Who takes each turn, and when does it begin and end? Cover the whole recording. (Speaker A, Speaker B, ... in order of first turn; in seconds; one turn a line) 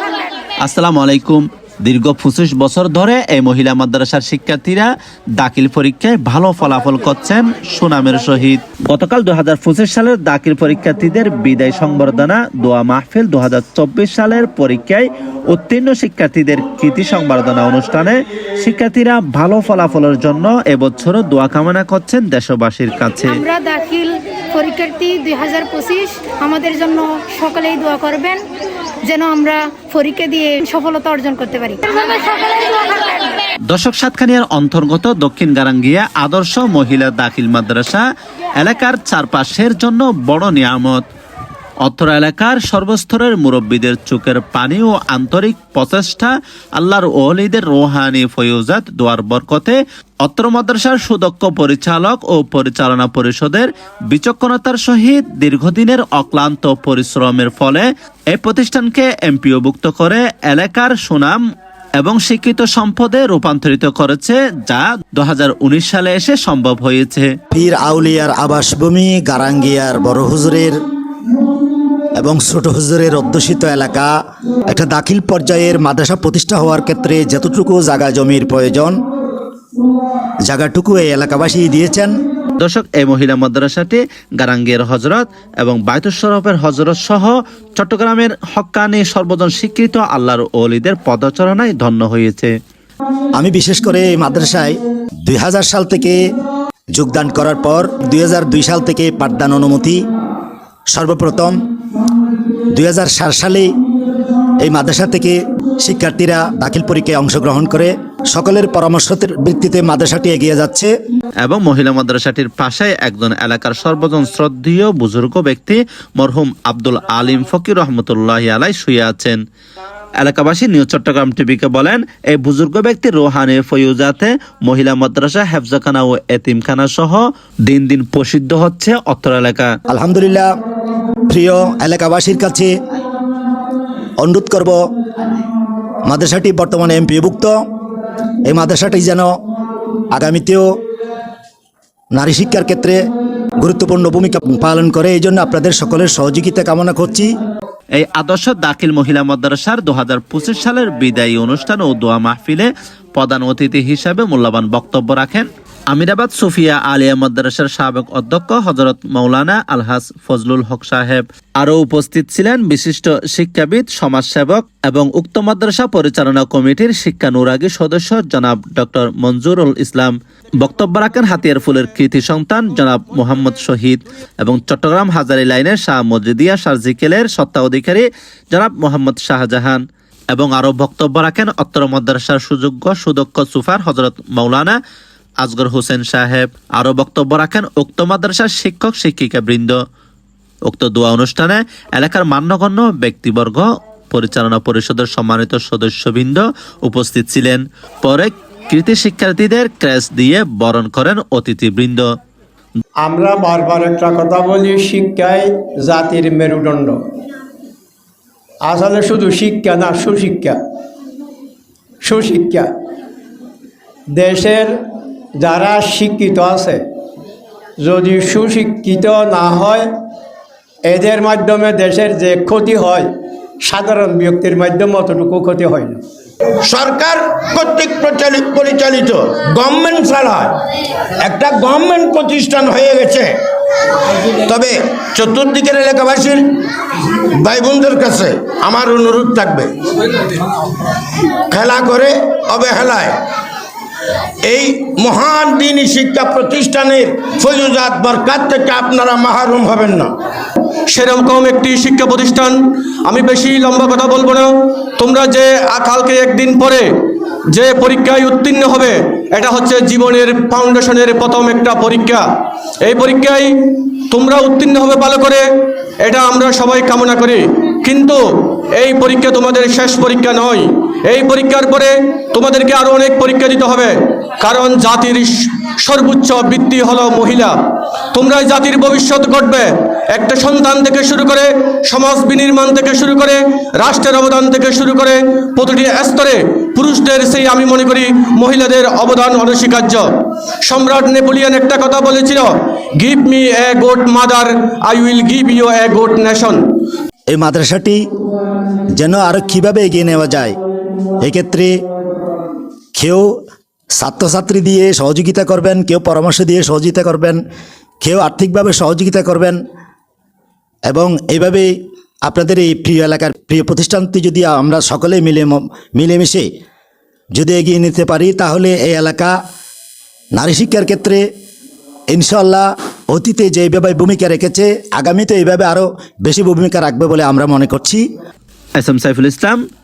Speaker A: 0.6-4.9
Speaker A: 5.4-23.4
Speaker B: 23.2-28.4
Speaker B: 29.1-32.2
Speaker A: 33.7-38.0
Speaker A: 38.6-41.0
Speaker A: 41.8-61.4
Speaker A: 62.0-67.3
Speaker C: 67.5-70.7
Speaker C: 72.2-74.1
Speaker C: 74.7-79.0
Speaker C: 80.5-82.1
Speaker A: 82.6-92.5
Speaker C: 93.4-96.2
Speaker C: 96.9-100.0
Speaker C: 100.9-101.6
Speaker C: 102.7-103.7
Speaker C: 104.6-110.9
Speaker A: 111.4-119.4
Speaker A: 120.2-129.8
Speaker C: 129.9-130.5
Speaker C: 131.3-132.7
Speaker C: 134.2-134.8
Speaker C: 136.1-137.6
Speaker C: 138.4-139.3
Speaker C: 140.1-140.7
Speaker C: 142.1-143.0
Speaker C: 143.6-147.3
Speaker A: 148.0-179.8
Speaker A: 180.3-184.8
Speaker A: 185.4-189.8
Speaker A: 190.7-202.1
Speaker D: 203.0-207.0
Speaker D: 208.7-210.6
Speaker D: 212.0-212.7
Speaker D: 214.1-214.7
Speaker D: 215.4-216.8
Speaker D: 217.8-219.9
Speaker D: 220.9-223.1
Speaker D: 223.6-226.0
Speaker E: 226.7-230.6
Speaker E: 231.2-233.3
Speaker E: 234.4-236.5
Speaker E: 237.4-239.7
Speaker E: 241.5-243.2
Speaker E: 244.4-250.1
Speaker F: 250.9-256.9
Speaker F: 257.5-262.2
Speaker F: 262.8-265.5
Speaker F: 266.0-277.6
Speaker F: 278.1-290.1
Speaker F: 290.6-296.6
Speaker C: 297.3-298.0
Speaker C: 298.9-300.6
Speaker C: 301.2-301.7
Speaker C: 302.9-303.3
Speaker C: 304.0-307.4
Speaker C: 308.0-309.6
Speaker C: 310.9-311.7
Speaker C: 312.2-316.5
Speaker C: 317.4-319.3
Speaker C: 320.4-321.2
Speaker C: 322.1-328.0
Speaker A: 328.8-329.6